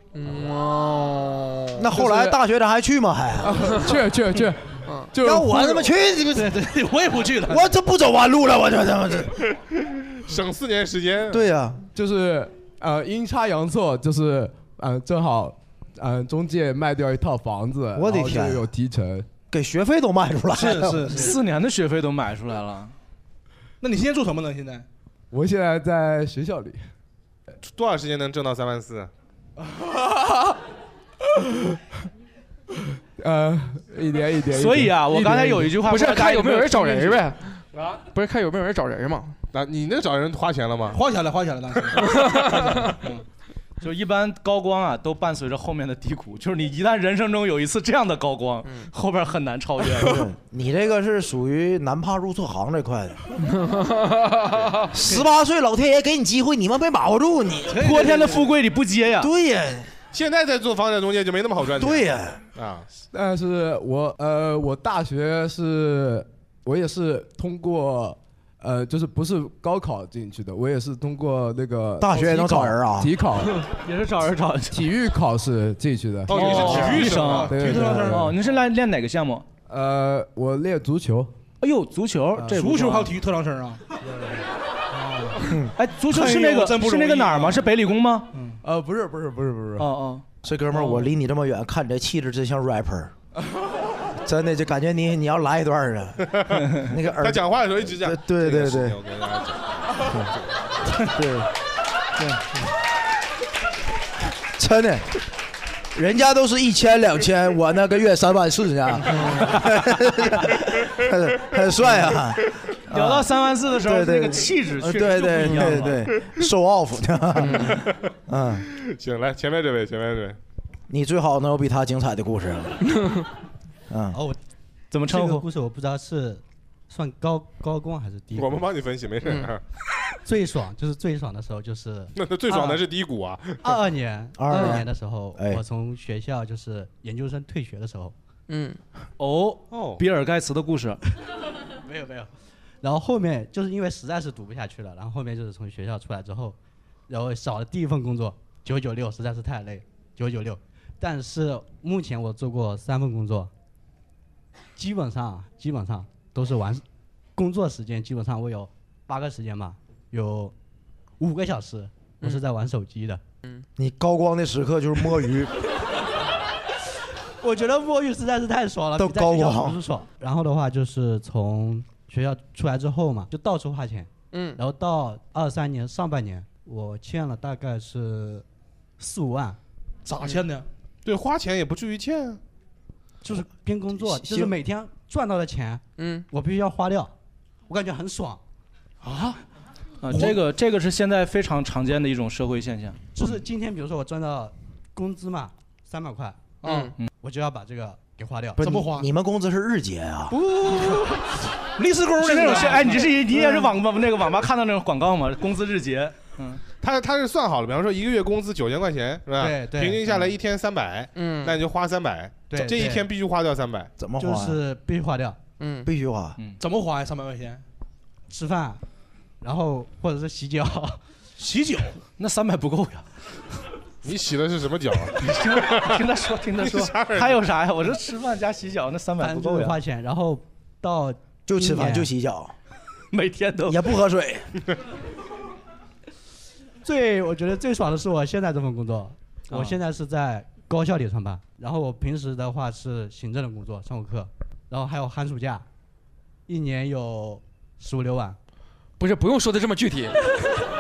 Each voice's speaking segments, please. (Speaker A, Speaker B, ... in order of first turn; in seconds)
Speaker A: 0.1-1.8, 4.8-5.1, 35.8-39.4, 42.0-42.9, 53.5-54.6, 123.0-123.2, 129.2-129.5, 134.5-134.8, 138.5-138.8, 174.3-174.6, 186.0-186.3, 196.6-196.9, 211.2-211.6, 215.6-215.9, 249.0-250.3
Speaker B: 1.8-3.8, 5.2-6.7, 7.5-9.4, 11.3-11.9, 18.0-18.7, 19.5-21.3, 50.0-53.2, 54.9-58.2, 59.2-59.9, 61.8-62.4, 72.0-73.1, 76.6-77.0, 90.4-93.1, 94.2-99.0, 100.1-100.3, 101.0-101.5, 104.6-105.1, 106.0-118.7, 120.9-122.8, 123.9-124.2, 134.4-135.6, 163.8-165.6, 169.0-169.8, 183.9-184.6, 198.6-200.3, 214.0-214.6, 215.8-216.4, 231.5-232.5, 233.7-234.5
Speaker C: 3.4-5.9, 11.9-19.3, 25.3-26.8, 33.2-35.8, 63.1-73.5, 74.7-76.9, 77.5-78.4, 79.7-81.3, 88.6-89.9
Speaker D: 6.3-7.7, 20.5-21.4, 23.8-24.9, 40.9-43.2, 57.9-58.3, 76.4-78.3, 82.4-83.8, 84.9-85.5, 86.0-87.7, 88.3-88.6, 180.1-180.7, 189.0-189.4, 190.1-190.4, 196.6-196.9, 198.6-199.1, 201.8-203.1, 216.6-217.6, 221.4-222.0
Speaker E: 9.5-11.4, 27.6-29.1, 37.8-38.0, 39.5-41.0, 60.1-62.9, 76.3-77.5, 96.2-100.4, 117.4-118.0, 118.6-120.4, 128.3-129.6, 132.2-133.8, 139.7-140.0, 181.1-182.4, 206.8-213.9, 224.0-226.0, 226.6-227.4
Speaker F: 21.1-22.9, 34.5-37.2, 43.8-50.2, 57.7-59.3, 73.4-74.9, 76.3-79.5, 81.6-83.1, 85.8-88.3, 89.8-90.2, 96.5-96.9, 112.9-116.0, 124.9-125.5, 139.2-141.0, 190.0-193.0, 202.2-206.6, 222.2-223.1, 225.2-229.8, 233.1-233.9, 239.5-239.8
Speaker G: 124.1-124.4, 125.0-128.7, 130.2-132.8, 133.6-138.1, 141.8-142.3, 142.8-146.6, 147.1-153.5, 154.8-156.8, 157.4-160.5, 161.2-163.2, 167.4-178.4, 179.0-179.6, 183.2-187.1, 187.7-188.4, 193.2-196.6, 197.1-198.6, 200.7-201.1, 203.3-203.7, 209.4-210.1, 212.5-213.1, 214.2-215.4, 218.3-218.8, 219.4-221.0, 229.2-232.1, 236.8-245.7, 246.5-248.4